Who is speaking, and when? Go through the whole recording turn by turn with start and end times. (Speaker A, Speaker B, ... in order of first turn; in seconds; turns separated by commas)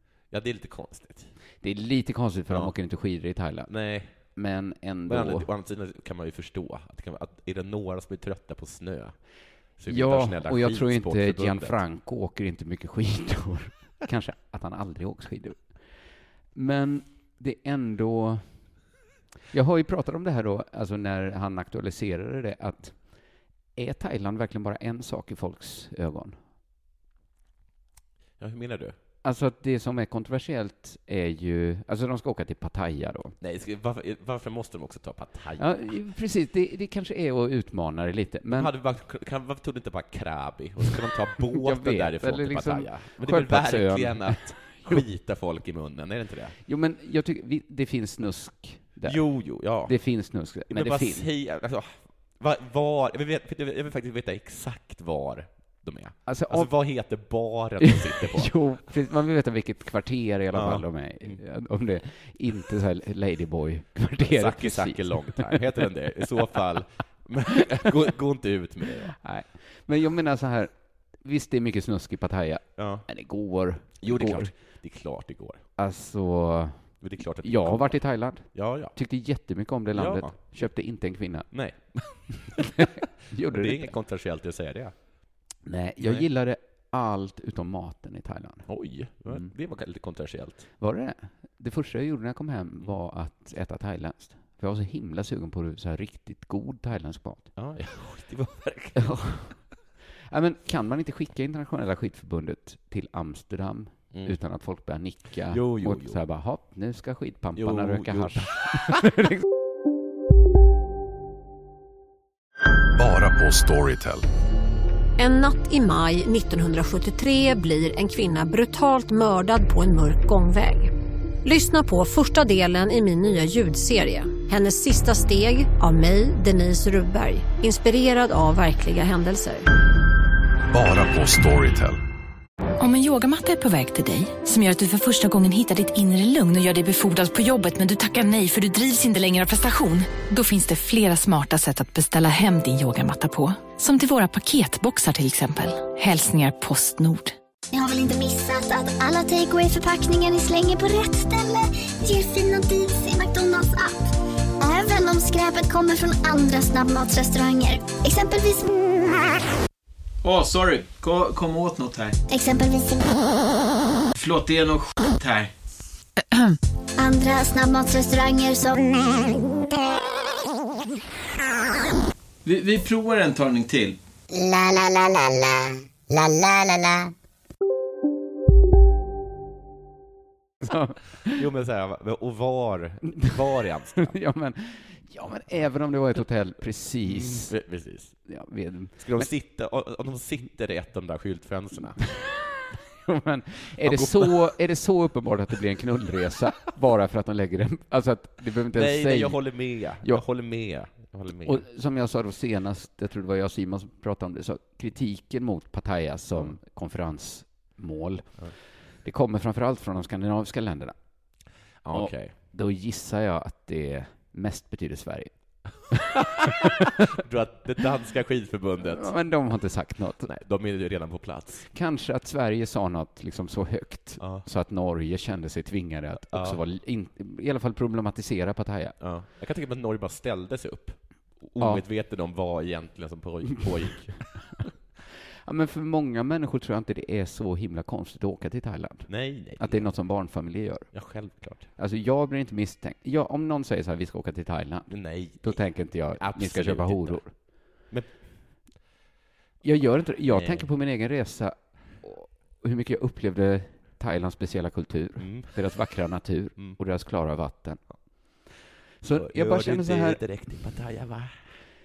Speaker A: 0.3-1.3, Speaker B: 1.6-3.7, Speaker A: 2.5-2.7, Speaker A: 3.7-4.1, Speaker B: 4.2-5.5, Speaker A: 5.1-9.2, Speaker A: 9.8-11.8, Speaker B: 9.9-15.7, Speaker B: 16.5-18.5, Speaker B: 19.5-23.0, Speaker B: 23.8-26.4, Speaker A: 28.4-28.9, Speaker B: 29.2-33.4, Speaker A: 33.4-35.9, Speaker B: 35.6-38.7, Speaker A: 38.5-46.6, Speaker B: 41.5-45.0, Speaker B: 46.6-51.3, Speaker A: 49.0-50.0, Speaker A: 50.7-58.5, Speaker B: 56.2-56.7, Speaker B: 57.8-65.9, Speaker A: 60.5-61.4, Speaker A: 64.2-69.2, Speaker B: 69.2-74.5, Speaker A: 72.8-73.0, Speaker A: 74.0-75.6, Speaker B: 75.8-76.8, Speaker A: 77.0-78.0, Speaker B: 77.4-81.5, Speaker A: 78.5-79.0, Speaker A: 79.9-80.4, Speaker A: 81.5-84.9, Speaker B: 82.6-83.9, Speaker B: 85.7-88.7, Speaker A: 86.0-86.2, Speaker A: 88.7-90.7, Speaker B: 90.8-97.5, Speaker A: 97.5-99.2, Speaker B: 99.0-99.6, Speaker B: 100.3-109.4, Speaker A: 105.5-106.2, Speaker A: 107.5-109.0, Speaker C: 113.0-114.2, Speaker D: 115.2-120.9, Speaker D: 121.4-129.7, Speaker C: 130.7-132.0, Speaker E: 132.8-147.3, Speaker F: 147.7-154.1, Speaker F: 154.6-158.7, Speaker G: 160.2-162.2, Speaker F: 162.3-163.2, Speaker G: 164.1-165.5, Speaker F: 167.0-169.4, Speaker G: 172.4-174.0, Speaker F: 174.4-175.2, Speaker F: 176.1-176.9, Speaker B: 180.6-181.4, Speaker A: 181.2-184.1, Speaker B: 184.0-187.5, Speaker A: 187.0-188.2, Speaker B: 188.3-189.3, Speaker A: 189.0-192.0, Speaker B: 192.0-192.5, Speaker B: 193.0-200.2, Speaker A: 193.8-194.4, Speaker A: 198.7-201.6, Speaker B: 201.4-208.4, Speaker B: 209.0-210.9, Speaker A: 211.8-212.3, Speaker B: 211.9-215.3, Speaker A: 216.2-219.1, Speaker B: 218.8-220.3, Speaker A: 220.2-221.7, Speaker B: 221.7-229.0, Speaker A: 224.2-224.4, Speaker A: 226.3-226.6, Speaker A: 229.0-234.4, Speaker B: 231.6-231.8, Speaker B: 235.4-241.1, Speaker A: 239.1-239.9, Speaker A: 240.9-241.7, Speaker B: 241.8-247.3, Speaker A: 244.9-247.2, Speaker A: 247.8-248.1, Speaker B: 249.6-257.8, Speaker A: 250.3-250.7, Speaker A: 255.2-255.6, Speaker B: 259.0-260.2, Speaker A: 259.1-261.4